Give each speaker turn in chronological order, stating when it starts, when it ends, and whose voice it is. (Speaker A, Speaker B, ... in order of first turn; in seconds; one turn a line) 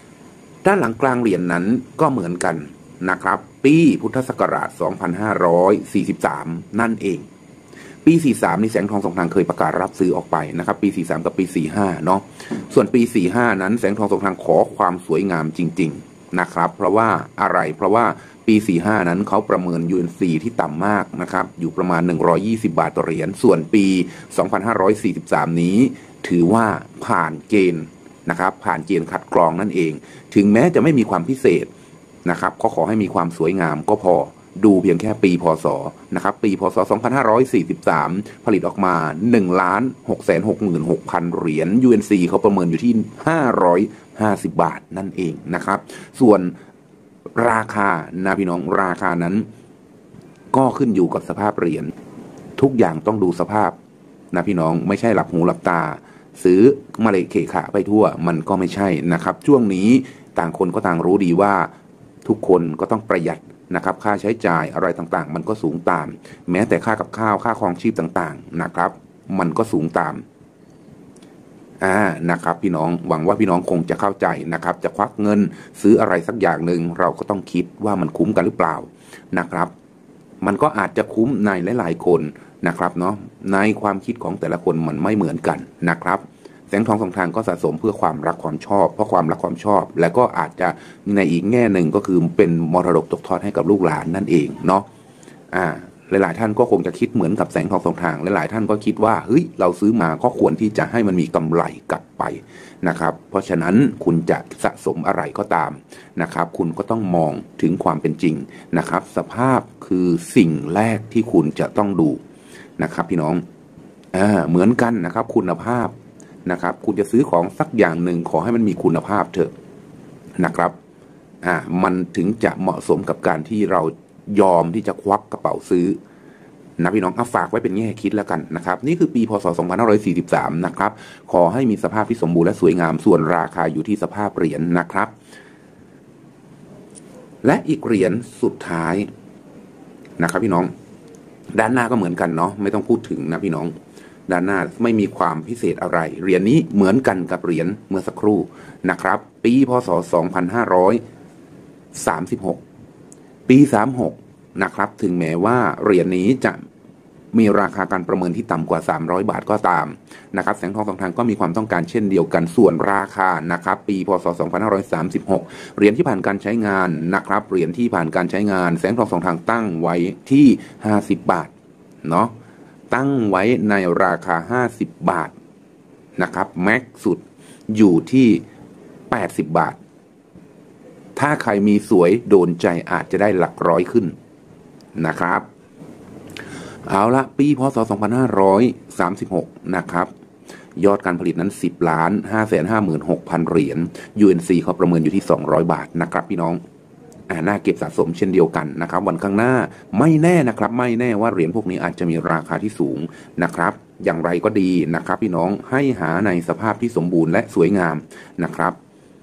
Speaker A: 0.6-7.3
Speaker A: 8.1-31.7
Speaker A: 32.2-46.5
Speaker A: 47.4-49.5
Speaker A: 50.5-51.9
Speaker A: 52.6-53.8
Speaker A: 54.3-61.7
Speaker A: 62.2-70.2
Speaker A: 71.8-79.7
Speaker A: 80.4-94.9
Speaker A: 95.5-112.2
Speaker A: 112.8-113.4
Speaker A: 114.1-119.5
Speaker A: 120.4-120.8
Speaker A: 121.4-126.0
Speaker A: 126.8-135.1
Speaker A: 137.4-139.1
Speaker A: 140.2-140.7
Speaker A: 141.5-143.7
Speaker A: 144.3-151.0
Speaker A: 151.9-152.6
Speaker A: 153.5-156.6
Speaker A: 157.3-171.5
Speaker A: 172.0-172.3
Speaker A: 172.9-175.3
Speaker A: 176.2-178.4
Speaker A: 179.1-179.8
Speaker A: 181.2-184.2
Speaker A: 185.0-185.5
Speaker A: 186.9-190.1
Speaker A: 190.8-196.6
Speaker A: 197.3-208.8